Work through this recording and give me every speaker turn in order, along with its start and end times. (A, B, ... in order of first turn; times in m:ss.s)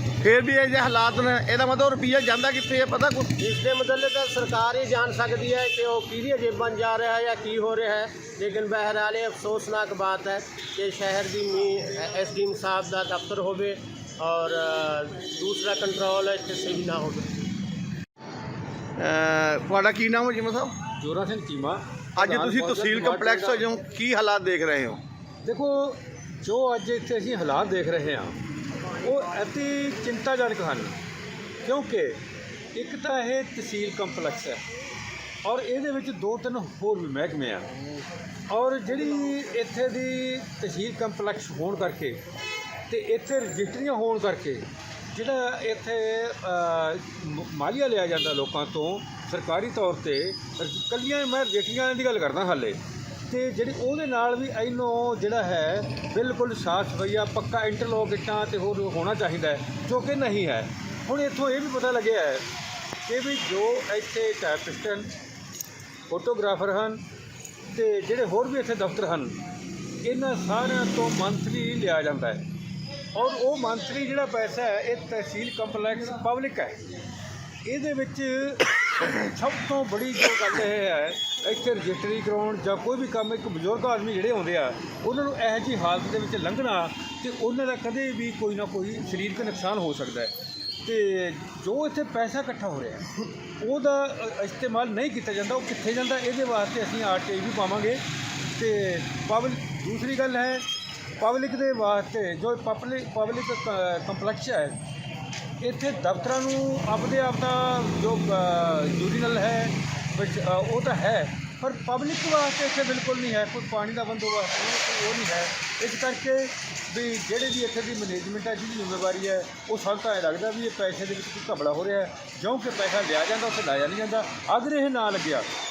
0:00.2-0:03.3 A
0:03.4-0:17.3 B
0:19.0-0:20.7 A
0:21.0-0:23.6 C
0:22.2-0:25.0 A
0:25.4-0:28.4 C
0:29.0-0:31.0 C
0:31.6-0:32.2 C
0:32.7-0:34.6 C
0:35.4-0:37.7 C
0:38.5-0:42.2 C
0:42.9-1:02.4 C
1:03.0-1:05.1 C
1:06.1-1:07.0 C
1:07.7-1:09.4 C
1:10.0-1:12.4 C
1:13.1-1:16.9 C
1:17.6-1:30.3 C
1:30.8-1:40.6 C
1:41.2-1:44.8 C
1:45.6-2:05.4 C